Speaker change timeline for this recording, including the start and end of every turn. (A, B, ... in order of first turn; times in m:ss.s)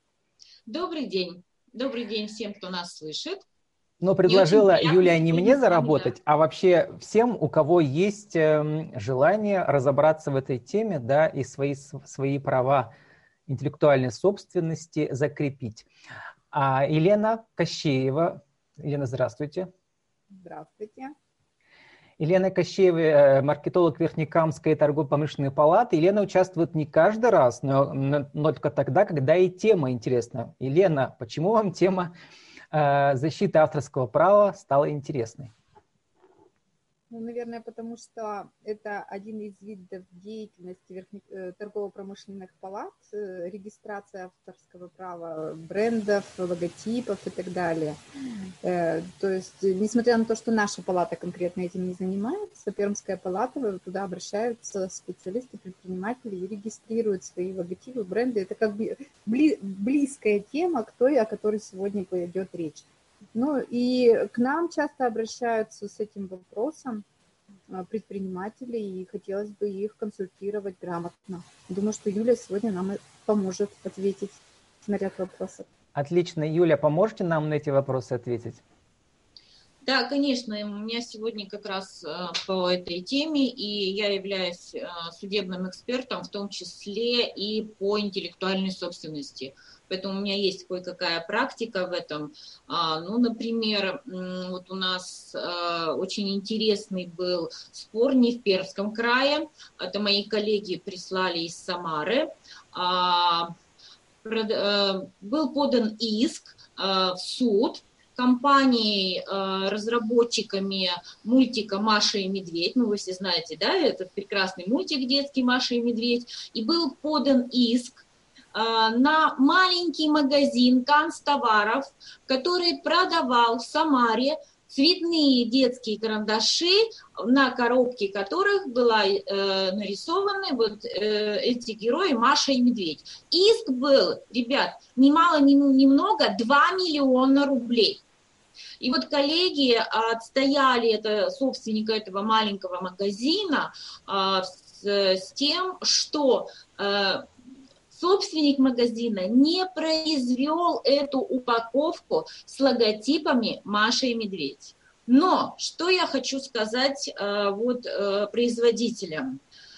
0:00.7-0:03.4 A
0:04.0-0:12.9 B
0:04.3-0:06.1 A
0:13.5-0:15.9 B
0:16.5-0:19.7 B
0:20.3-0:21.1 C
0:22.2-0:32.1 B
0:32.7-0:35.5 B
0:37.1-0:48.0 C
0:48.6-1:07.0 C
1:07.7-1:15.7 C
1:15.9-1:18.6 B
1:19.8-1:43.5 A
1:44.2-2:18.0 A
2:18.8-2:27.3 A
2:27.9-2:39.4 A